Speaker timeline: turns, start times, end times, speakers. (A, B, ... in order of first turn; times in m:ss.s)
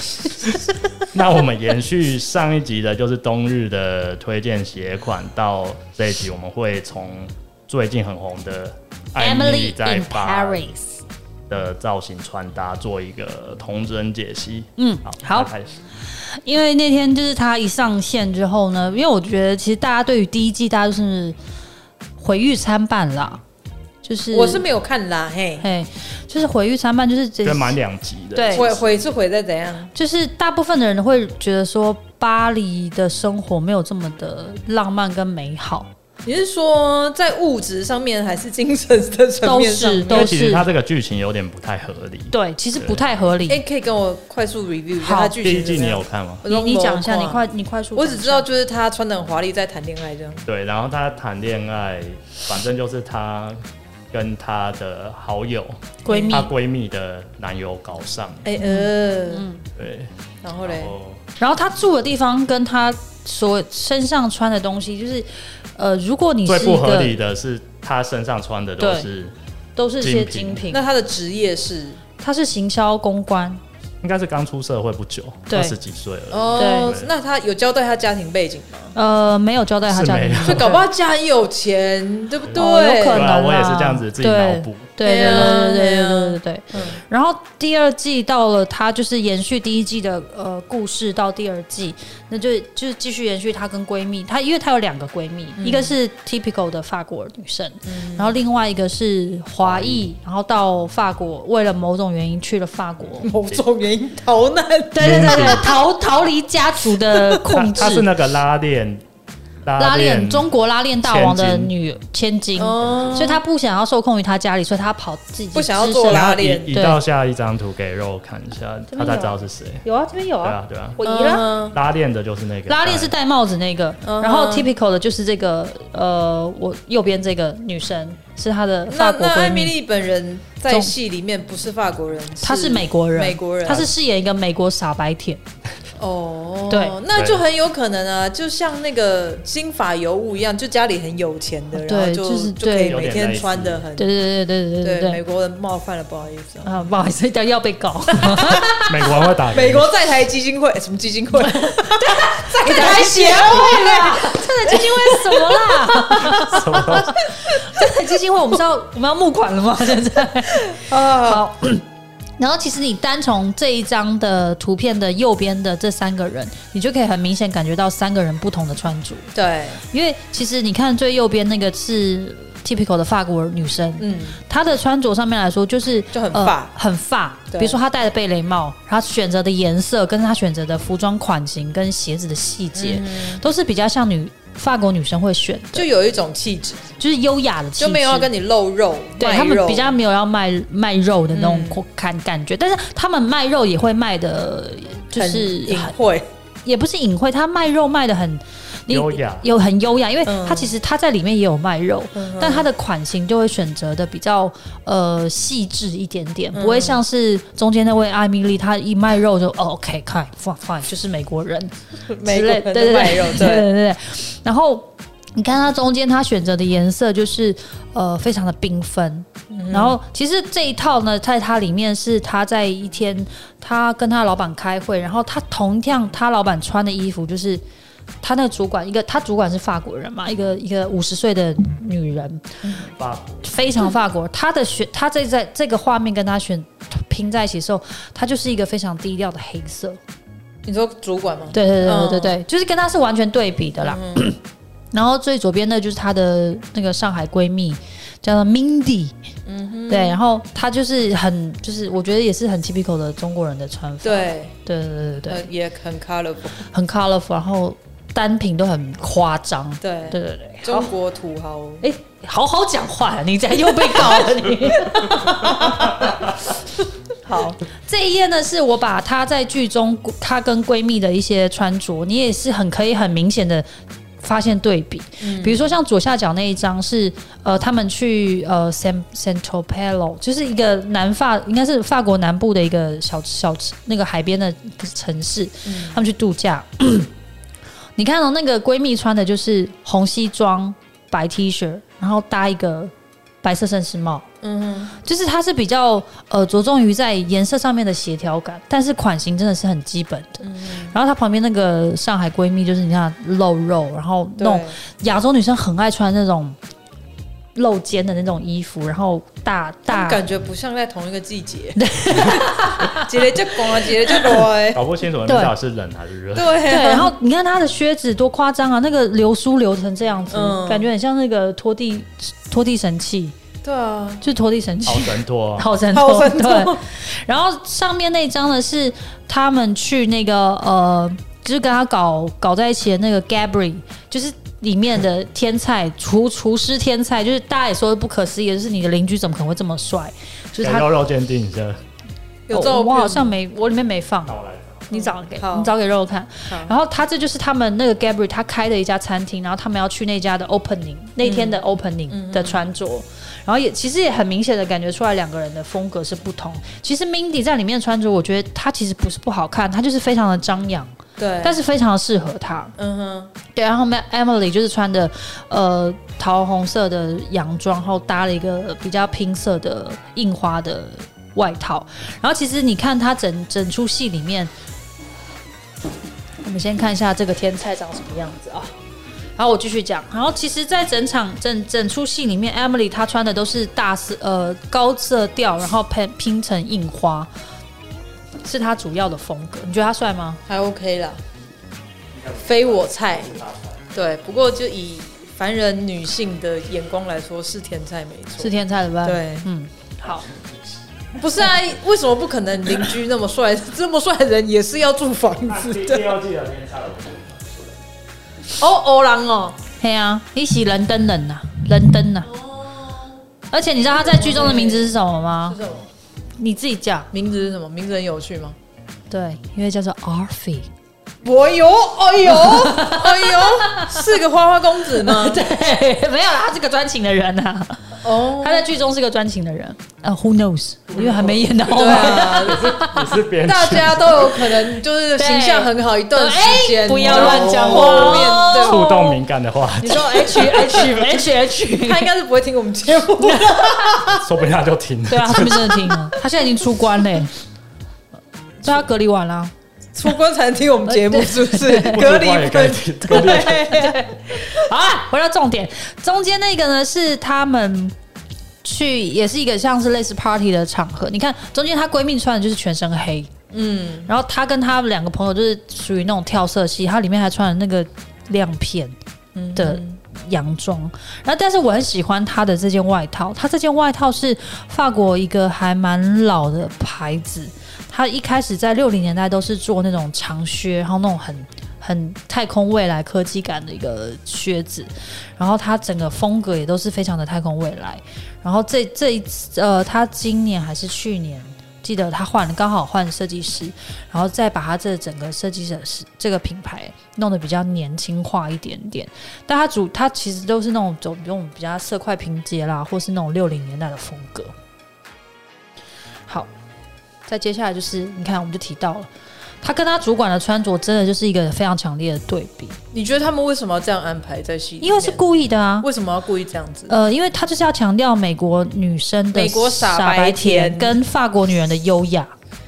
0:00.3-0:10.7 A
0:09.2-0:11.0 B
0:11.5-0:15.8 A
0:14.8-0:15.5 B
0:16.1-0:21.4 B
0:22.2-0:23.4 B
0:24.0-0:24.6 B
0:24.3-0:25.7 C
0:25.6-0:27.8 B
0:27.4-0:28.9 A
0:28.3-0:28.7 B
0:28.5-0:29.9 C
0:29.9-0:35.9 B
0:36.2-0:40.4 C
0:39.4-0:40.6 B
0:40.1-0:43.0 A
0:42.3-0:43.6 B
0:43.5-0:47.4 C
0:45.0-0:45.4 B
0:45.4-0:46.4 A
0:46.4-0:48.5 B
0:48.0-0:50.4 C
0:50.4-0:58.5 A
0:56.0-0:56.5 B
0:56.0-0:56.5 C
0:58.4-0:59.5 C
0:58.6-0:59.6 B
0:59.8-1:01.2 A
1:00.4-1:00.9 C
1:01.4-1:07.1 B
1:06.4-1:09.3 A
1:08.8-1:09.0 B
1:09.8-1:10.9 B
1:10.0-1:10.6 A
1:10.7-1:12.0 C
1:12.2-1:13.6 B
1:14.0-1:17.1 A
1:15.5-1:15.8 B
1:16.3-1:18.9 C
1:16.6-1:16.9 B
1:18.9-1:20.8 B
1:19.9-1:20.7 A
1:20.4-1:23.3 C
1:22.5-1:43.3 B
1:23.0-1:25.6 A
1:25.0-1:27.0 C
1:35.6-1:36.0 C
1:37.9-1:38.3 C
1:39.6-1:40.0 A
1:43.2-1:45.4 C
1:44.9-1:48.1 B
1:45.0-1:45.6 A
1:47.1-1:47.5 C
1:47.5-1:49.0 A
1:49.6-1:50.5 A
1:49.8-1:57.0 B
1:51.0-1:51.7 A
1:52.6-1:53.4 C
1:52.8-1:53.2 A
1:55.5-1:56.7 C
1:56.1-1:59.8 A
1:58.9-2:01.5 B
2:00.4-2:01.0 A
2:01.0-2:01.8 C
2:01.7-2:03.1 A
2:02.7-2:09.8 B
2:04.0-2:04.7 C
2:08.9-2:13.9 C
2:12.4-2:15.4 B
2:16.0-2:24.1 C
2:16.7-2:17.0 B
2:17.1-2:17.4 A
2:21.7-2:23.1 B
2:22.8-2:23.8 A
2:24.0-2:25.2 B
2:24.8-2:26.9 C
2:26.6-2:28.9 B
2:28.2-2:28.8 C
2:28.8-2:29.9 A
2:29.5-2:37.9 C
2:31.4-2:41.8 B
2:36.5-2:37.2 A
2:40.7-2:41.4 C
2:42.4-2:49.3 B
2:49.3-2:49.8 C
2:49.9-3:05.9 B
2:54.0-2:54.4 C
2:56.1-2:56.7 C
2:57.5-2:57.8 C
3:02.7-3:03.4 C
3:05.7-3:06.8 C
3:07.0-3:08.3 B
3:07.8-3:10.0 C
3:09.2-3:15.9 B
3:11.3-3:11.8 C
3:15.1-3:16.3 C
3:16.6-3:31.7 B
3:18.9-3:19.5 A
3:20.2-3:20.7 C
3:22.1-3:22.7 C
3:26.5-3:27.0 C
3:32.1-3:33.7 C
3:32.2-3:47.6 B
3:39.5-3:40.0 C
3:48.2-3:52.6 B
3:52.6-3:52.9 C
3:53.0-3:53.4 A
3:53.4-4:00.0 B
4:00.6-4:02.4 C
4:01.5-4:04.4 B
4:03.8-4:04.2 C
4:04.9-4:09.2 B
4:09.4-4:10.2 C
4:09.9-4:15.5 B
4:14.0-4:14.6 C
4:15.3-4:16.7 C
4:16.7-4:20.9 B
4:19.8-4:21.8 C
4:21.8-4:26.3 B
4:23.7-4:26.0 C
4:27.2-4:33.6 B
4:34.2-4:47.1 B
4:35.2-4:35.7 C
4:45.6-4:46.0 C
4:48.0-4:52.9 B
4:53.4-4:54.2 B
4:54.4-4:55.0 C
4:55.0-5:06.6 B
5:00.4-5:00.9 C
5:04.4-5:04.8 C
5:07.5-5:10.2 B
5:09.9-5:14.9 C
5:11.8-5:14.4 B
5:14.7-5:16.6 A
5:15.2-5:15.5 B
5:16.3-5:17.1 C
5:16.6-5:23.3 B
5:20.3-5:20.9 C
5:23.6-5:24.2 C
5:24.2-5:40.9 B
5:24.8-5:25.7 A
5:25.9-5:26.8 C
5:40.6-5:41.8 A
5:42.5-5:43.3 C
5:42.5-5:44.3 B
5:44.2-5:44.9 A
5:44.9-6:02.7 B
5:44.9-5:45.7 C
5:51.2-5:52.6 C
6:01.2-6:01.6 C
6:02.8-6:03.3 C
6:03.5-6:14.5 B
6:16.4-6:18.7 B
6:19.4-6:27.3 B
6:28.4-6:30.4 B
6:30.5-6:31.2 C
6:32.1-6:33.9 A
6:32.4-6:33.4 C
6:33.9-6:39.5 C
6:38.4-6:40.3 B
6:40.3-6:40.6 A
6:41.2-6:46.2 C
6:45.5-6:47.7 A
6:48.6-6:49.6 C
6:49.8-6:52.3 B
6:52.2-6:53.2 C
6:53.5-6:55.6 B
6:53.9-6:54.9 C
6:55.4-6:55.9 C
6:56.4-6:57.1 B
6:57.1-6:58.6 C
6:59.1-7:00.7 B
7:01.2-7:05.4 C
7:02.2-7:04.1 B
7:04.9-7:13.1 B
7:08.0-7:08.7 C
7:10.9-7:14.5 A
7:11.7-7:12.7 C
7:13.4-7:19.0 C
7:15.2-7:19.2 B
7:17.2-7:21.2 A
7:19.8-7:22.1 B
7:20.5-7:20.9 C
7:21.7-7:24.2 C
7:23.2-7:24.0 B
7:24.1-7:26.1 A
7:25.1-7:27.3 B
7:28.6-7:29.5 B
7:29.9-7:34.7 C
7:30.9-7:32.0 B
7:31.8-7:33.7 A
7:33.1-7:37.9 B
7:38.6-7:43.3 B
7:43.5-7:44.1 C
7:44.1-7:48.9 B
7:49.3-7:50.0 C
7:49.5-8:24.5 B
8:27.3-8:29.1 B
8:29.6-8:32.8 B
8:32.9-8:35.2 C
8:34.8-8:35.9 B
8:35.8-8:36.9 C
8:36.9-8:42.3 B
8:39.3-8:41.0 C